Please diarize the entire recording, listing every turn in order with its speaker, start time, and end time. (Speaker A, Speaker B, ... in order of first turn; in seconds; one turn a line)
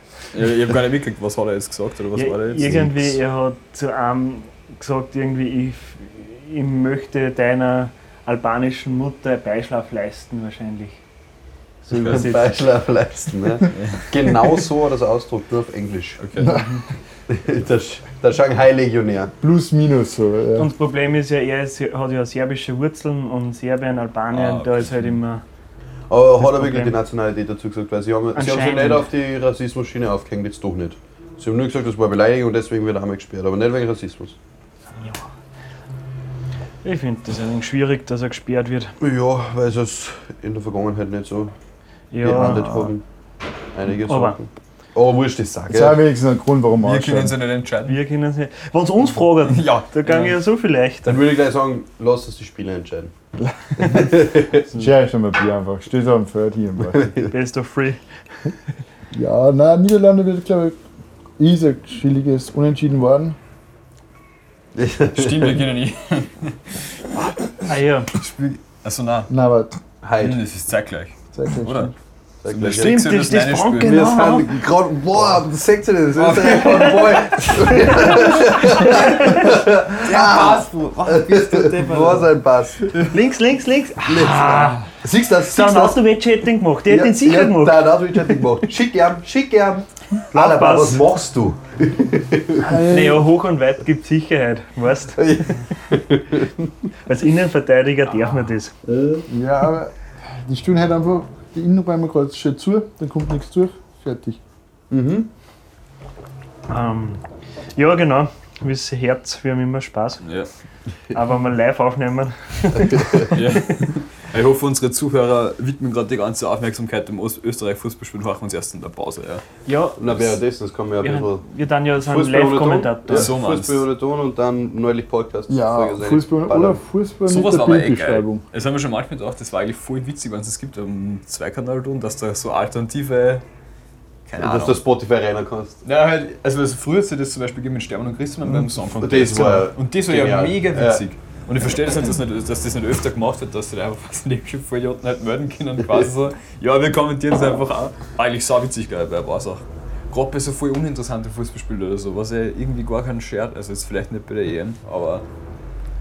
Speaker A: 0.3-3.2
Speaker B: 2.1-11.0
Speaker B: 11.8-12.6
Speaker C: 11.9-16.2
Speaker A: 13.7-14.4
Speaker A: 16.2-16.5
Speaker D: 16.4-16.7
Speaker C: 17.3-19.3
Speaker D: 19.4-20.7
Speaker B: 20.6-25.4
Speaker A: 24.3-25.2
Speaker C: 26.1-34.4
Speaker B: 26.4-27.0
Speaker B: 28.3-29.1
Speaker B: 35.0-35.3
Speaker B: 36.8-39.0
Speaker C: 39.0-41.5
Speaker B: 42.1-42.9
Speaker C: 42.2-43.0
Speaker C: 43.7-46.0
Speaker B: 44.1-44.4
Speaker D: 45.7-47.4
Speaker A: 46.8-48.0
Speaker B: 47.9-51.2
Speaker A: 49.4-50.4
Speaker C: 51.0-53.1
Speaker D: 53.4-57.1
Speaker C: 53.8-54.7
Speaker C: 56.9-57.3
Speaker B: 57.3-58.0
Speaker D: 59.1-60.8
Speaker D: 61.4-63.4
Speaker C: 64.8-65.7
Speaker A: 65.1-69.3
Speaker B: 67.7-68.1
Speaker D: 69.3-69.8
Speaker C: 70.0-70.4
Speaker A: 70.2-71.9
Speaker D: 71.3-71.9
Speaker C: 72.4-73.0
Speaker A: 72.5-74.3
Speaker B: 72.7-74.5
Speaker C: 73.8-83.1
Speaker A: 75.1-75.4
Speaker A: 76.1-79.3
Speaker A: 80.0-82.2
Speaker B: 83.0-84.9
Speaker C: 84.0-86.0
Speaker B: 85.5-88.0
Speaker C: 86.9-92.9
Speaker B: 90.3-91.0
Speaker D: 92.6-93.3
Speaker B: 92.7-95.3
Speaker C: 95.2-96.7
Speaker B: 97.1-98.8
Speaker C: 98.9-99.7
Speaker D: 99.3-104.4
Speaker C: 104.9-105.3
Speaker B: 106.7-107.2
Speaker B: 107.8-110.2
Speaker A: 110.2-110.5
Speaker B: 111.1-113.3
Speaker C: 112.7-113.4
Speaker A: 113.3-119.4
Speaker B: 119.7-120.0
Speaker C: 120.0-121.4
Speaker B: 121.0-123.3
Speaker C: 122.0-126.8
Speaker A: 123.1-123.9
Speaker D: 125.5-128.4
Speaker A: 127.3-133.4
Speaker A: 134.3-134.8
Speaker C: 134.4-135.8
Speaker A: 135.8-155.2
Speaker C: 139.0-141.0